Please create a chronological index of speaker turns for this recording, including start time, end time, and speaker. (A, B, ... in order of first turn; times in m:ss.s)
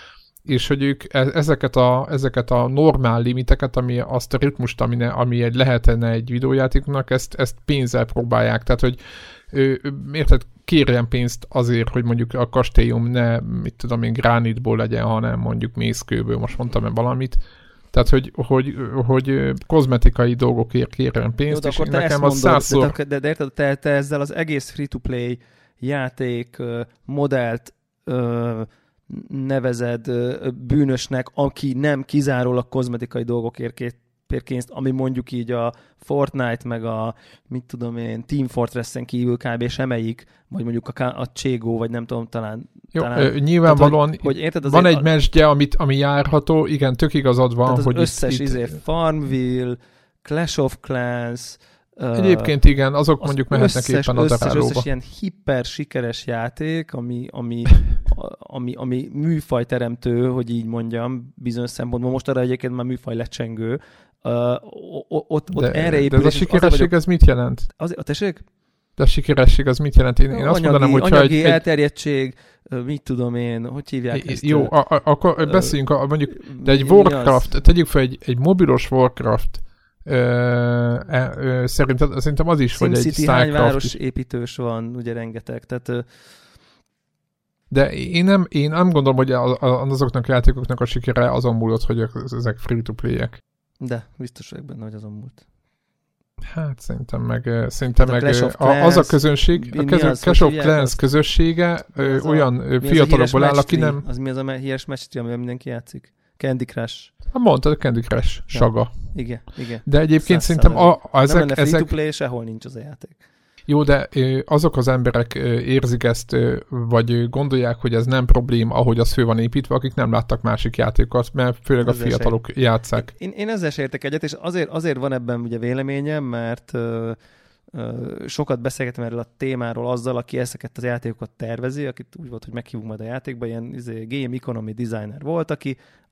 0:00.4-0:09.0 A
0:09.5-0:17.4 A
0:17.9-0:22.9 A
0:21.5-0:45.0 B
0:42.9-0:48.7 A
0:47.6-0:52.5 B
0:52.2-0:54.9 A
0:53.2-1:06.9 B
1:05.5-1:07.7 A
1:07.8-1:08.4 B
1:09.0-1:11.6 A
1:10.3-1:14.7 B
1:14.1-1:24.0 A
1:15.4-1:15.7 B
1:16.4-1:17.5 B
1:22.7-1:26.0 B
1:27.7-1:33.4 A
1:33.8-1:35.4 B
1:36.5-1:44.0 A
1:38.0-1:41.0 B
1:41.9-1:47.1 B
1:47.3-1:49.2 A
1:48.5-1:53.2 B
1:49.8-1:51.9 A
1:53.7-2:03.1 A
2:01.8-2:02.4 B
2:03.0-2:07.2 B
2:07.7-2:15.8 B